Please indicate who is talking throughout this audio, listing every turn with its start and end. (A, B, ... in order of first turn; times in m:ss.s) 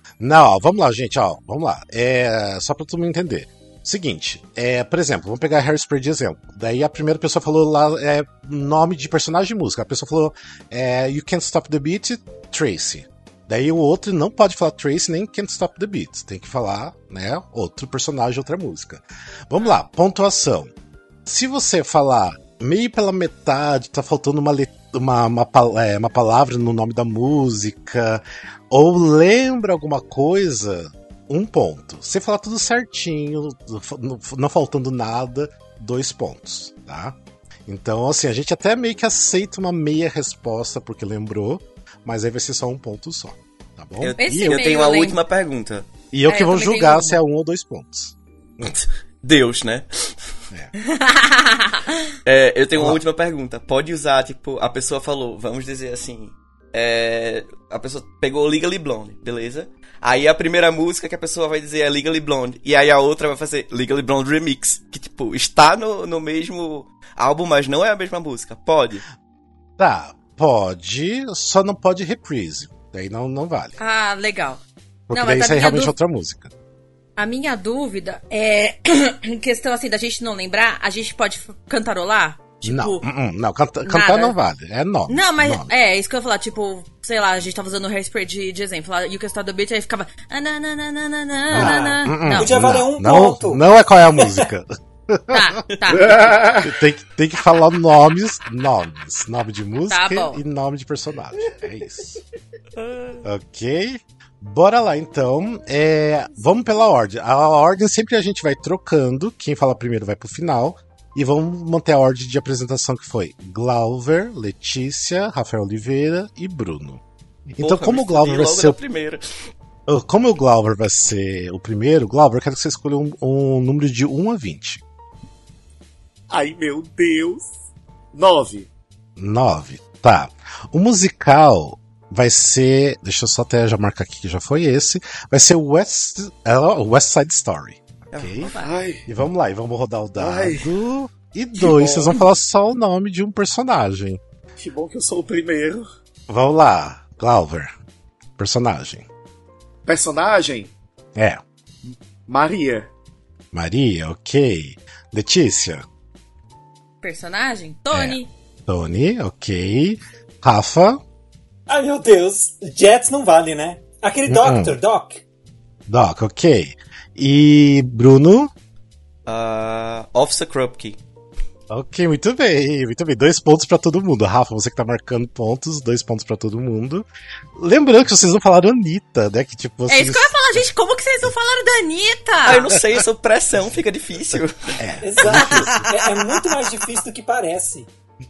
0:00.2-0:20.7 A
0:21.2-0:44.6 A
0:44.0-0:45.9 B
0:44.2-0:45.2 C
0:46.1-0:48.7 A
0:46.3-0:47.2 C
0:49.2-0:50.1 B
0:50.8-0:52.0 C
0:52.2-1:09.0 B
1:09.8-1:13.7 A
1:13.8-1:14.6 C
1:15.1-1:16.5 A
1:15.1-1:15.9 C
1:17.2-1:23.0 C
1:22.6-1:25.7 A
1:23.8-1:24.3 C
1:25.1-1:32.5 C
1:31.5-1:42.2 A
1:31.5-1:33.6 D
1:34.1-1:34.4 D
1:35.3-1:36.4 C
1:35.7-1:36.0 B
1:35.9-1:36.7 E
1:39.9-1:40.4 C
1:42.8-1:43.2 B
1:43.2-1:58.8 A
1:57.6-1:59.2 B
1:59.9-2:04.8 A
2:06.3-2:07.5 E
2:08.1-2:08.7 E
2:09.2-2:18.5 A
2:18.1-2:18.6 B
2:18.6-2:19.0 E
2:19.0-2:24.2 A
2:20.2-2:20.7 E
2:21.6-2:22.2 E
2:24.6-2:25.8 E
2:26.3-2:27.7 A
2:28.4-2:29.0 A
2:29.8-2:30.7 E
2:31.1-2:31.4 A
2:32.3-2:32.9 E
2:33.5-2:35.8 A
2:37.0-2:38.3 C
2:37.9-2:41.0 A
2:41.7-2:45.2 D
2:44.2-2:44.8 A
2:45.9-2:48.5 A
2:49.2-2:51.0 B
2:51.7-3:00.3 A
2:59.9-3:02.7 C
3:02.4-3:04.8 B
3:04.8-3:05.9 A
3:05.0-3:07.9 D
3:05.3-3:06.0 C